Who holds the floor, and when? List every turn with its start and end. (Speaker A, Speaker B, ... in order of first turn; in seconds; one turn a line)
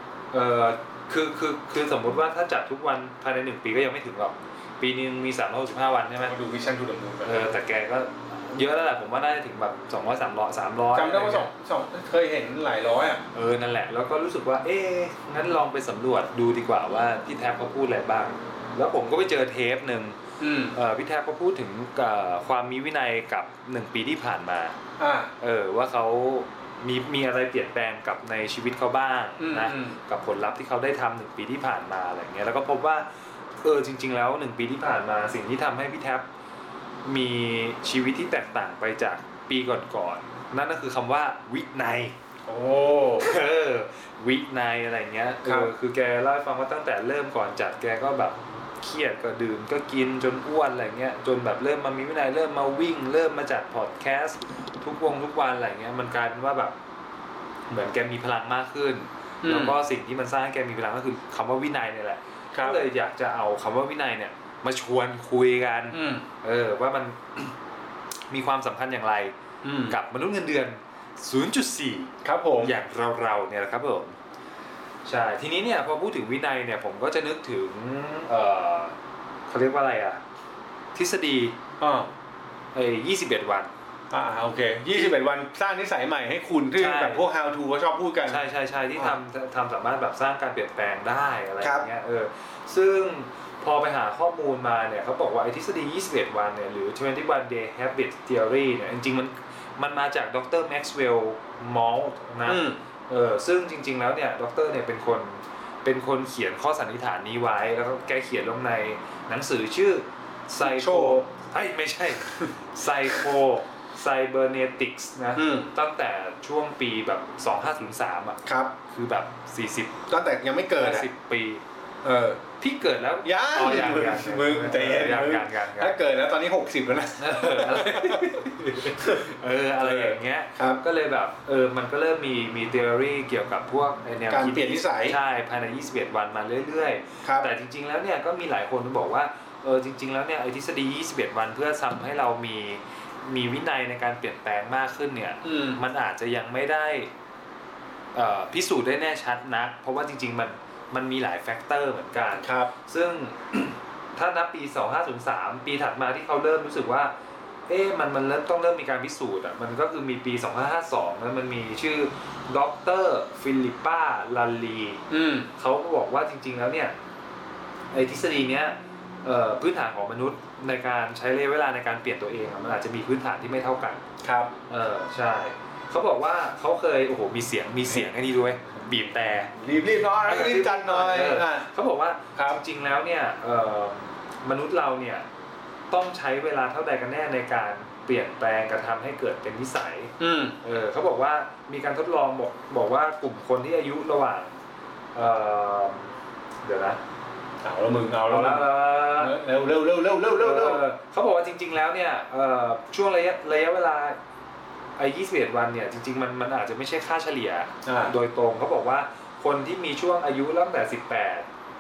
Speaker A: 0.3-6.4
Speaker B: 6.2-7.4
Speaker A: 7.2-11.5
Speaker B: 10.9-13.2
Speaker A: 13.3-20.2
Speaker B: 20.4-20.8
Speaker A: 20.7-24.8
Speaker B: 25.0-25.3
Speaker A: 25.4-33.1
Speaker B: 29.4-30.0
Speaker A: 33.6-36.3
Speaker A: 37.0-42.1
Speaker B: 42.5-43.3
Speaker A: 43.2-56.8
Speaker B: 45.4-45.7
Speaker A: 57.7-67.6
Speaker B: 59.4-59.8
Speaker B: 62.5-62.8
Speaker B: 65.9-66.2
Speaker A: 68.3-69.3
Speaker B: 69.6-70.0
Speaker A: 69.9-74.2
Speaker B: 72.2-72.7
Speaker A: 75.0-79.0
Speaker A: 79.5-80.2
Speaker A: 81.0-81.6
Speaker B: 81.8-82.1
Speaker A: 82.7-83.7
Speaker B: 84.1-88.4
Speaker A: 84.9-85.2
Speaker A: 86.8-87.2
Speaker A: 88.3-120.0
Speaker B: 91.6-91.9
Speaker B: 102.5-102.8
Speaker B: 110.6-111.2
Speaker B: 115.4-115.7
Speaker B: 118.5-118.8
Speaker B: 120.1-121.1
Speaker A: 120.8-121.6
Speaker B: 122.0-122.4
Speaker A: 122.6-126.0
Speaker B: 123.2-128.4
Speaker A: 127.2-147.1
Speaker B: 129.0-130.8
Speaker B: 134.3-135.2
Speaker B: 137.2-137.5
Speaker B: 145.4-145.8
Speaker A: 148.2-157.1
Speaker B: 152.4-152.7
Speaker A: 157.7-165.0
Speaker B: 165.1-165.5
Speaker A: 165.6-166.9
Speaker A: 167.9-174.0
Speaker B: 174.2-174.5
Speaker A: 174.7-179.5
Speaker B: 179.6-181.7
Speaker A: 180.2-185.3
Speaker A: 185.9-194.6
Speaker B: 190.2-190.6
Speaker A: 195.2-197.0
Speaker B: 197.6-200.8
Speaker A: 198.3-199.4
Speaker A: 200.3-204.2
Speaker A: 205.0-211.5
Speaker B: 207.8-208.1